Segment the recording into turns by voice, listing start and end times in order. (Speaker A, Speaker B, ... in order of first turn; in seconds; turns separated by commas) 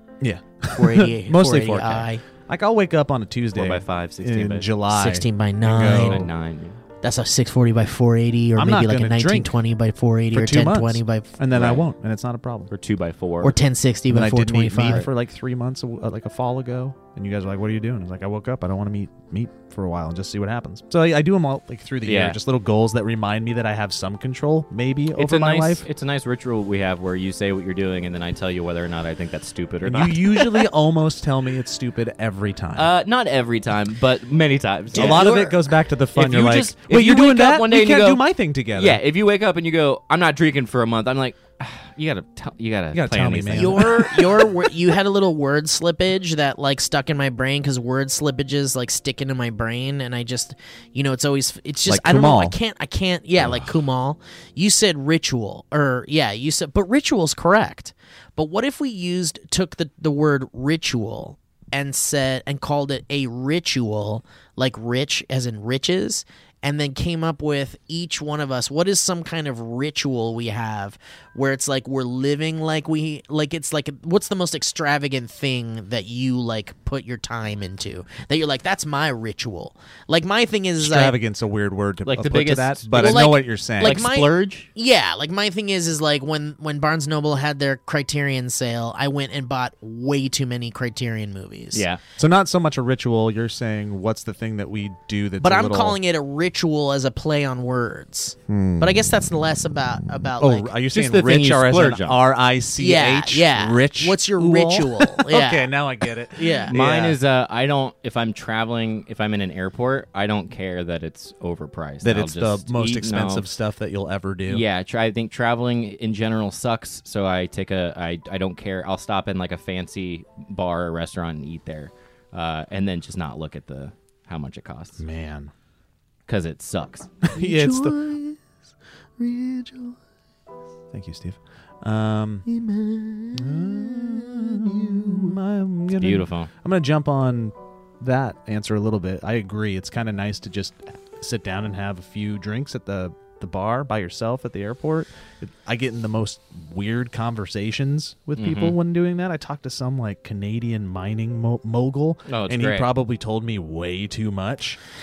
Speaker A: 0.2-6.3, Speaker B: 0.7-2.2, Speaker C: 3.5-4.7, Speaker B: 4.9-6.2, Speaker C: 5.9-6.8, Speaker B: 7.0-11.3, Speaker A: 8.6-9.6, Speaker A: 10.3-12.7, Speaker C: 11.5-11.8, Speaker C: 12.7-13.6, Speaker B: 13.4-15.1, Speaker A: 14.1-25.9, Speaker C: 22.1-22.4, Speaker C: 25.2-30.7, Speaker A: 29.8-32.9, Speaker C: 32.8-35.6, Speaker A: 34.9-39.0, Speaker B: 35.0-35.5, Speaker C: 36.1-44.4, Speaker A: 42.9-44.4, Speaker B: 43.5-81.2, Speaker A: 51.9-52.6, Speaker A: 53.4-53.7, Speaker A: 80.8-84.1, Speaker C: 82.0-84.7, Speaker B: 83.0-91.9, Speaker C: 91.7-92.0, Speaker A: 92.2-96.0, Speaker B: 95.4-100.7, Speaker A: 98.5-99.0, Speaker A: 100.4-107.2, Speaker C: 100.9-102.2, Speaker B: 102.8-105.7, Speaker B: 106.3-106.7, Speaker C: 106.7-113.5, Speaker A: 112.0-114.6, Speaker C: 114.5-125.0, Speaker A: 125.0-125.5, Speaker C: 126.3-127.3, Speaker A: 127.3-128.0, Speaker B: 127.4-128.4, Speaker B: 129.2-130.0, Speaker A: 130.9-132.4, Speaker B: 132.5-135.2, Speaker A: 133.3-154.8, Speaker C: 136.0-136.5, Speaker C: 148.4-148.8, Speaker C: 152.3-152.9